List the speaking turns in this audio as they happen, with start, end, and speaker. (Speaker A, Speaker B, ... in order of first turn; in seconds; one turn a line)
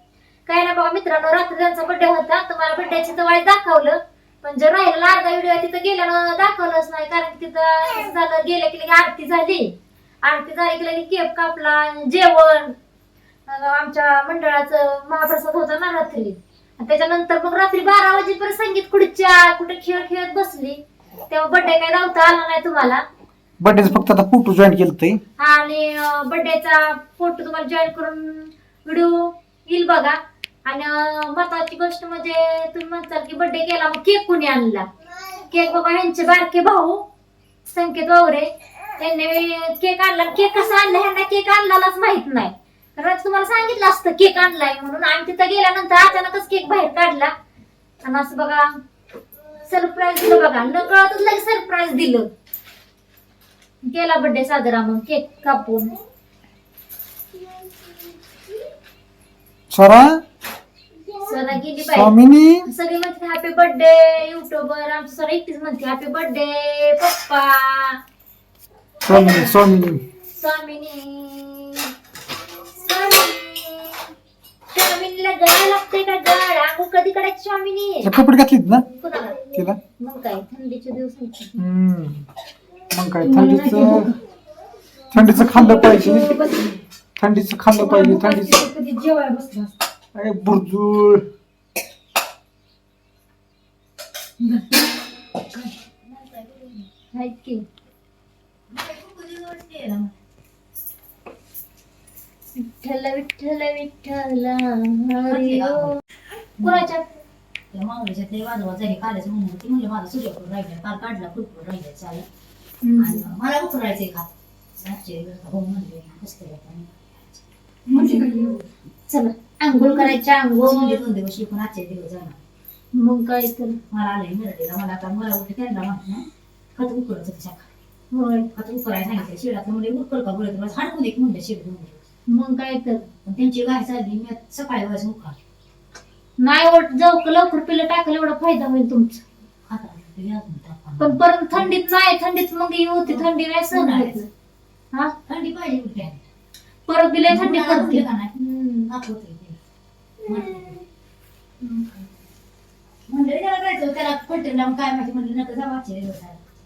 Speaker A: 0.5-12.8
Speaker A: 13.5-23.1
Speaker B: 23.6-25.2
Speaker A: 25.4-37.0
Speaker A: 37.7-47.3
Speaker A: 48.0-48.7
Speaker A: 49.7-52.3
Speaker A: 53.8-55.9
Speaker B: 59.7-60.2
Speaker A: 61.2-62.1
Speaker B: 61.7-62.7
Speaker A: 62.7-68.0
Speaker B: 69.1-70.0
Speaker A: 69.1-69.6
Speaker A: 70.4-71.9
Speaker A: 72.8-74.1
Speaker A: 74.7-78.1
Speaker B: 78.0-78.9
Speaker A: 79.0-79.5
Speaker B: 79.5-79.8
Speaker A: 80.0-81.6
Speaker B: 81.6-82.3
Speaker B: 82.9-84.1
Speaker C: 83.2-84.2
Speaker B: 85.1-86.4
Speaker C: 85.1-86.8
Speaker B: 87.2-88.7
Speaker C: 87.7-89.8
Speaker B: 90.2-91.2
Speaker D: 95.6-96.9
Speaker A: 97.1-97.6
Speaker D: 98.7-100.1
Speaker A: 102.6-106.0
Speaker D: 105.3-106.0
Speaker A: 106.6-107.1
Speaker D: 106.6-106.9
Speaker D: 107.7-112.2
Speaker A: 112.8-113.3
Speaker D: 113.0-117.5
Speaker C: 117.9-118.7
Speaker A: 118.0-118.3
Speaker A: 119.1-121.0
Speaker D: 119.8-122.4
Speaker A: 122.9-123.8
Speaker D: 123.9-127.7
Speaker A: 128.1-128.5
Speaker D: 128.5-132.0
Speaker A: 132.3-133.1
Speaker D: 133.2-135.4
Speaker A: 136.4-139.2
Speaker D: 139.7-141.7
Speaker A: 141.0-144.3
Speaker D: 143.1-144.2
Speaker D: 145.3-146.2
Speaker A: 146.9-148.9
Speaker D: 147.3-148.3
Speaker D: 148.9-149.6
Speaker A: 150.3-150.7
Speaker D: 150.3-150.8
Speaker D: 153.1-156.4